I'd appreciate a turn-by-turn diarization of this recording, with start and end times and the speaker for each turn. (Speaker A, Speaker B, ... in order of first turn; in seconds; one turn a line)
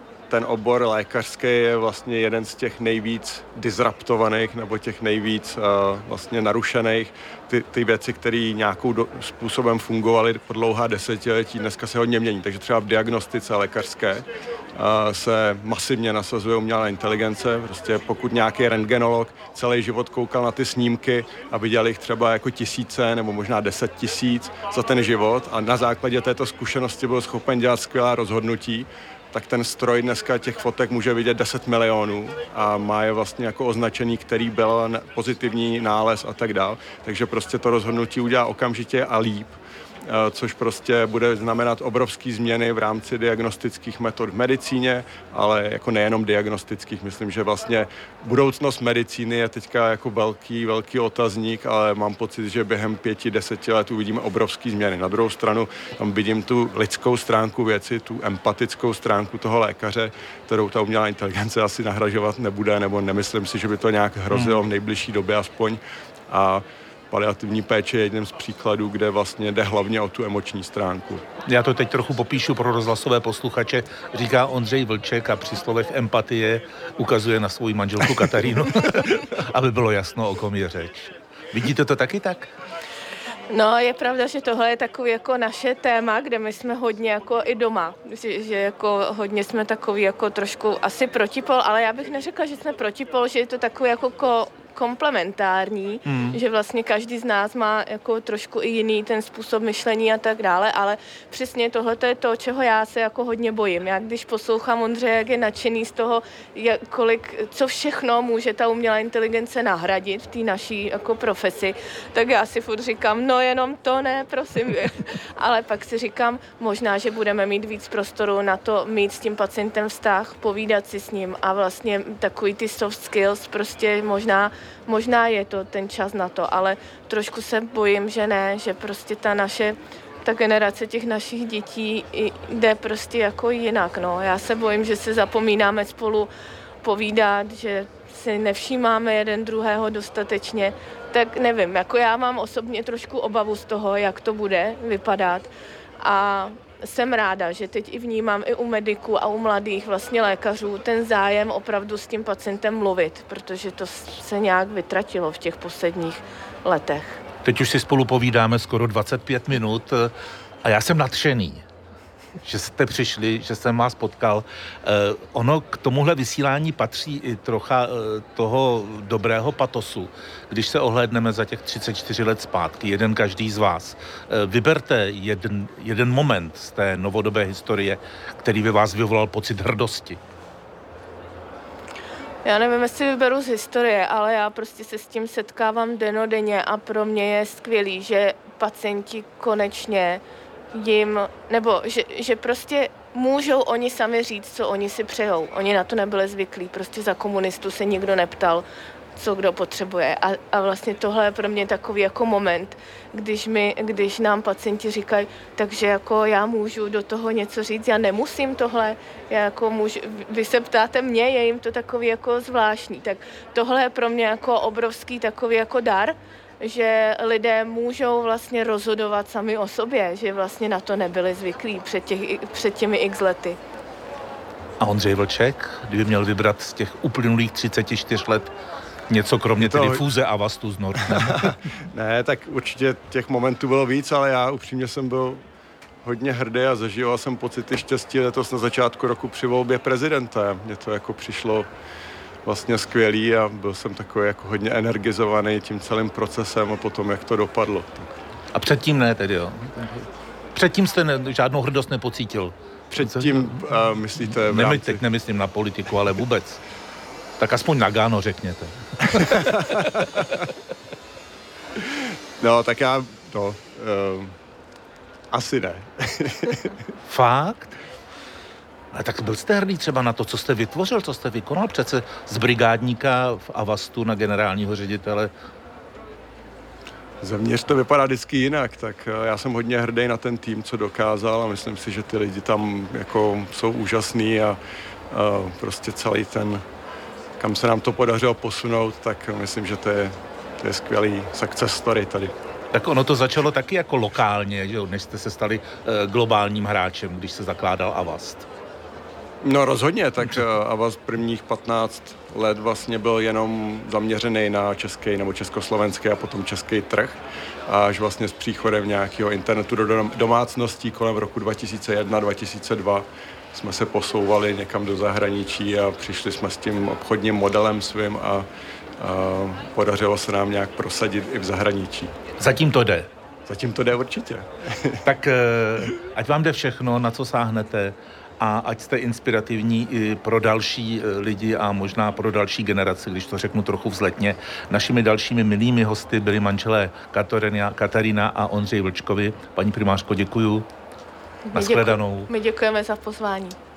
Speaker A: 0.3-71.2
Speaker B: 71.5-82.5
Speaker C: 83.5-136.3
Speaker B: 96.1-96.4
Speaker C: 136.8-145.5
Speaker C: 146.0-157.2
Speaker B: 157.4-160.1
Speaker B: 160.6-161.6
Speaker B: 162.4-180.2
Speaker C: 182.4-190.2
Speaker C: 190.7-223.6
Speaker B: 224.8-228.5
Speaker B: 229.1-231.6
Speaker A: 229.6-230.0
Speaker A: 231.0-235.4
Speaker A: 236.0-241.7
Speaker A: 242.4-248.2
Speaker B: 248.5-256.6
Speaker A: 252.9-255.0
Speaker B: 257.4-260.4
Speaker A: 259.1-259.8
Speaker A: 261.8-264.4
Speaker A: 265.3-266.8
Speaker B: 267.1-267.8
Speaker B: 268.9-275.3
Speaker A: 277.2-284.6
Speaker A: 285.1-286.6
Speaker A: 287.4-292.3
Speaker B: 292.7-298.5
Speaker A: 299.4-318.4
Speaker A: 319.0-322.1
Speaker B: 322.4-323.1
Speaker A: 323.5-325.0
Speaker B: 325.0-340.7
Speaker C: 341.5-343.6
Speaker B: 341.5-342.3